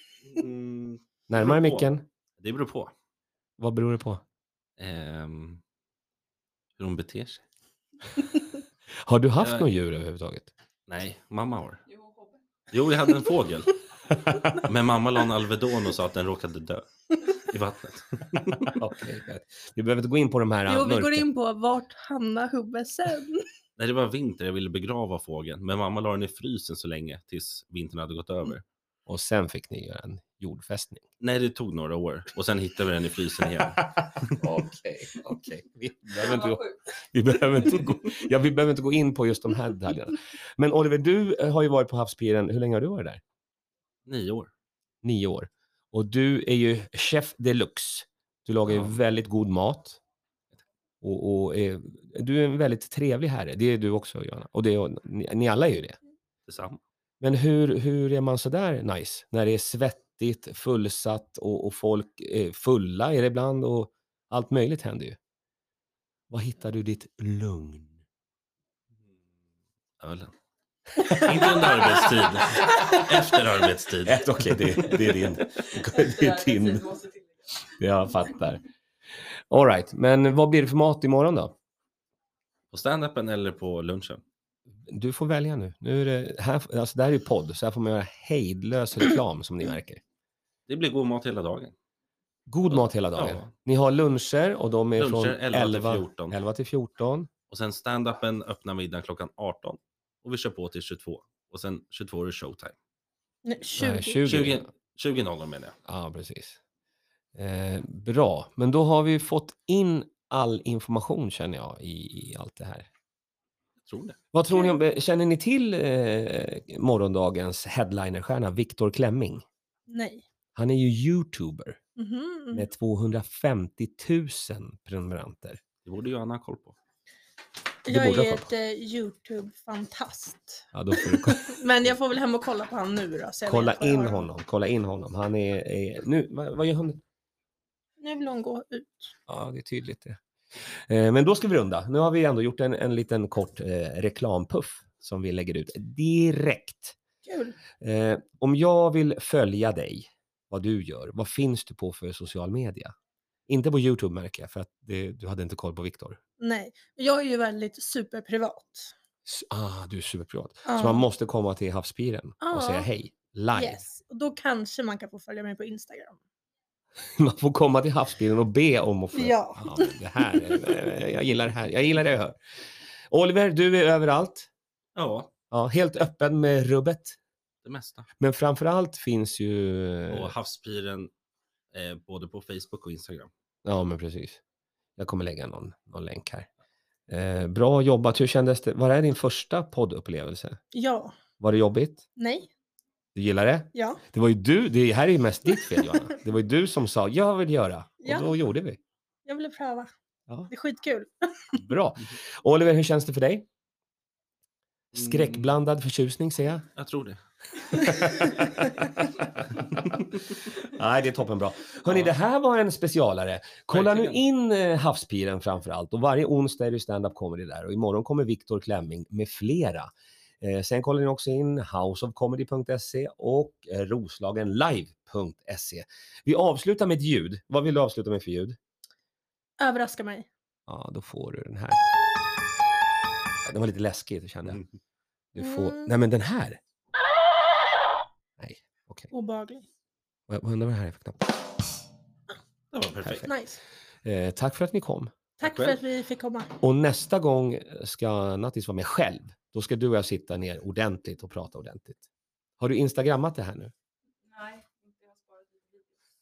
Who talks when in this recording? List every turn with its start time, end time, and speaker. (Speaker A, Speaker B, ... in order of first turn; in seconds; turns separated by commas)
Speaker A: 0.2-2.9, Speaker B: 1.3-2.0, Speaker B: 3.6-4.2, Speaker A: 4.8-5.6, Speaker A: 6.8-7.4, Speaker B: 9.1-10.5, Speaker A: 9.4-9.7, Speaker A: 10.9-11.8, Speaker A: 12.7-13.8, Speaker B: 14.2-14.6, Speaker A: 14.6-18.8, Speaker B: 18.7-21.3, Speaker C: 20.7-23.4, Speaker A: 23.8-28.6, Speaker B: 29.1-31.1, Speaker A: 31.2-34.4, Speaker B: 34.3-43.2, Speaker A: 44.0-44.5, Speaker B: 45.0-50.0, Speaker A: 48.7-49.0, Speaker B: 51.0-56.0, Speaker A: 56.5-56.8, Speaker B: 57.2-65.2, Speaker B: 66.3-68.0, Speaker A: 70.0-70.3, Speaker B: 70.9-72.0, Speaker A: 71.2-75.3, Speaker B: 72.6-73.0, Speaker B: 74.0-77.0, Speaker D: 76.0-77.2, Speaker B: 77.6-78.6, Speaker B: 79.5-81.5, Speaker A: 82.7-84.2, Speaker B: 84.9-90.0, Speaker A: 90.7-91.7, Speaker B: 92.5-97.3, Speaker A: 92.7-93.5, Speaker A: 95.0-96.3, Speaker A: 97.5-102.7, Speaker C: 103.4-104.2, Speaker B: 103.8-104.7, Speaker A: 104.2-105.8, Speaker B: 105.8-106.6, Speaker B: 107.3-112.9, Speaker A: 113.8-114.2, Speaker B: 114.3-119.4, Speaker C: 119.9-120.2, Speaker B: 120.5-121.8, Speaker C: 122.0-122.7, Speaker B: 122.5-125.6, Speaker A: 125.8-126.8, Speaker C: 127.9-134.2, Speaker B: 127.9-128.5, Speaker B: 130.7-131.6, Speaker B: 133.5-137.0, Speaker C: 138.0-139.1, Speaker B: 139.3-140.2, Speaker B: 140.9-147.0, Speaker C: 147.2-147.6, Speaker B: 147.8-152.9, Speaker B: 153.5-156.2, Speaker C: 156.4-158.9, Speaker B: 159.2-163.8, Speaker C: 160.7-161.1, Speaker C: 162.4-162.9, Speaker C: 163.5-166.2, Speaker B: 167.1-172.4, Speaker C: 169.1-170.6, Speaker B: 173.1-174.5, Speaker A: 174.9-175.3, Speaker B: 175.5-177.2, Speaker A: 177.6-178.1, Speaker B: 178.2-180.3, Speaker A: 180.1-181.1, Speaker A: 181.7-183.3, Speaker B: 183.6-184.4, Speaker B: 185.0-186.5, Speaker B: 187.1-190.6, Speaker C: 190.7-191.1, Speaker B: 191.4-192.0, Speaker C: 192.2-192.5, Speaker B: 193.1-198.8, Speaker C: 193.7-194.0, Speaker C: 198.0-198.3, Speaker C: 199.2-199.9, Speaker C: 200.5-201.5, Speaker B: 201.5-203.4, Speaker A: 204.9-205.5, Speaker B: 204.9-206.7, Speaker A: 206.8-207.2, Speaker B: 207.6-209.7, Speaker B: 210.5-219.9, Speaker A: 211.8-212.1, Speaker A: 213.7-214.2, Speaker B: 220.4-228.6, Speaker C: 229.6-230.3, Speaker B: 230.7-231.9, Speaker B: 233.4-234.6, Speaker B: 235.3-236.6, Speaker C: 235.4-235.9, Speaker B: 238.4-239.1, Speaker C: 239.1-239.7, Speaker B: 240.3-241.2, Speaker A: 242.7-243.3, Speaker B: 243.0-243.3, Speaker C: 243.3-243.6, Speaker B: 244.0-245.1, Speaker C: 245.4-246.5, Speaker A: 245.4-245.8, Speaker B: 246.6-252.0, Speaker B: 252.6-253.7, Speaker D: 254.3-255.9